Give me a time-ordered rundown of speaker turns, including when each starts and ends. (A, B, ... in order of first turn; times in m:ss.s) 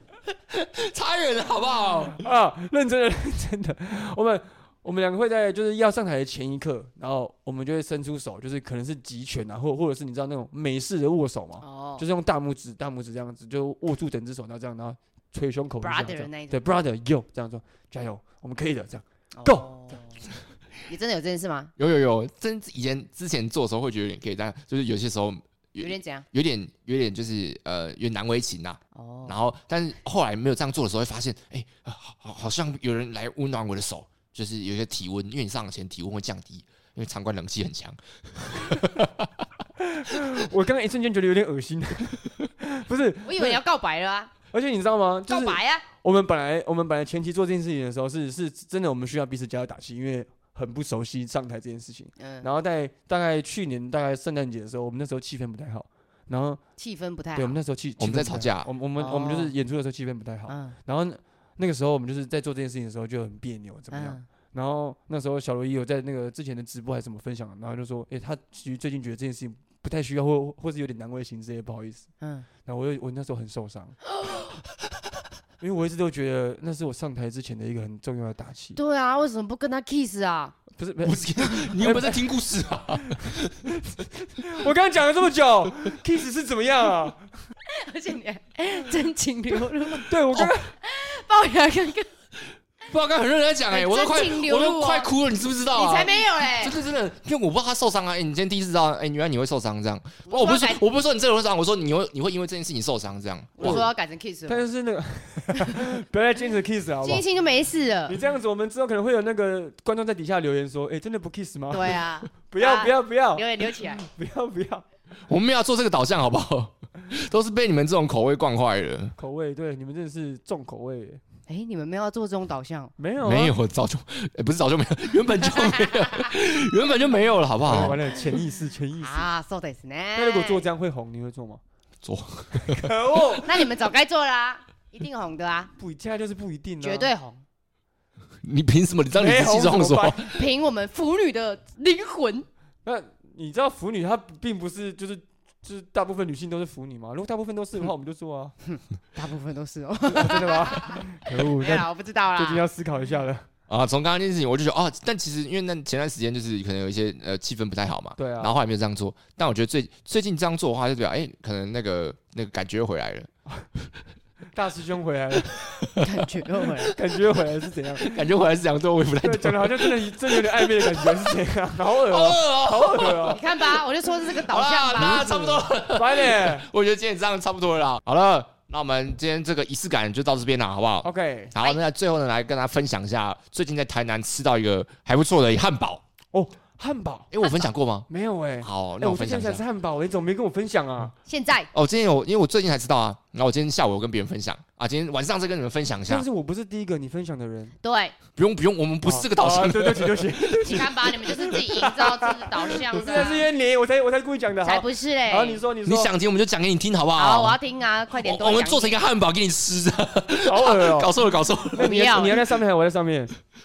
0:00.5-0:02.2 A
0:02.2-0:19.7 B
0:11.6-0:12.0 C
0:15.8-0:16.6 C
0:19.3-0:20.2 C
0:20.9-0:21.7 C
0:21.8-0:39.4 A
0:25.8-0:26.2 C
0:28.9-0:29.4 C
0:39.8-0:43.6 B
0:43.2-0:44.3 C
0:44.5-0:56.6 B
0:45.3-0:45.8 C
0:52.2-0:52.5 C
0:56.8-0:57.6 C
0:57.3-1:12.1 B
0:58.0-0:58.7 A
0:59.0-0:59.5 C
1:00.5-1:00.8 C
1:03.9-1:04.2 C
1:12.2-1:12.5 C
1:12.6-1:14.0 B
1:15.6-1:18.8 B
1:18.8-1:20.6 C
1:20.8-1:22.4 B
1:21.0-1:23.7 A
1:22.9-1:27.3 B
1:27.7-1:32.1 C
1:30.0-1:30.7 B
1:32.8-1:43.8 A
1:33.7-1:35.1 C
1:35.7-1:36.8 C
1:40.2-1:40.8 C
1:43.6-1:44.6 C
1:43.6-1:43.8 B
1:44.5-1:47.2 B
1:45.5-1:45.8 C
1:47.0-1:48.2 C
1:48.1-1:54.8 B
1:51.7-1:54.0 C
1:55.3-1:59.1 A
1:59.2-2:01.2 B
2:01.5-2:02.9 C
2:03.0-2:03.5 B
2:03.2-2:08.0 A
2:07.6-2:09.3 B
2:09.0-2:10.6 C
2:10.2-2:11.6 B
2:12.0-2:13.4 A
2:12.6-2:13.5 B
2:13.4-2:15.7 C
2:15.8-2:17.1 B
2:16.8-2:17.4 C
2:18.4-2:20.3 A
2:19.1-2:20.2 B
2:20.2-2:22.5 C
2:22.8-2:28.5 B
2:28.7-2:32.6 C
2:30.1-2:33.4 B
2:33.7-2:43.3 A
2:38.2-2:38.6 B
2:44.5-2:45.6 B
2:45.6-2:46.0 A
2:46.0-2:46.9 C
2:46.9-2:48.1 B
2:48.0-2:53.4 A
2:49.2-2:53.4 B
2:53.3-2:55.6 C
2:54.3-3:06.0 A
2:55.0-2:56.7 B
3:01.0-3:01.5 B
3:06.3-3:07.3 B
3:07.3-3:08.1 A
3:08.1-3:11.1 B
3:08.6-3:09.6 A
3:11.2-3:11.7 C
3:11.7-3:16.2 A
3:16.1-3:17.8 B
3:17.8-3:18.2 C
3:18.4-3:20.7 A
3:19.0-3:26.1 B
3:20.6-3:23.5 C
3:24.6-3:25.6 C
3:25.8-3:27.6 A
3:27.2-3:29.0 C
3:28.2-3:31.9 A
3:30.4-3:31.1 B
3:31.7-3:33.3 B
3:31.8-3:32.4 C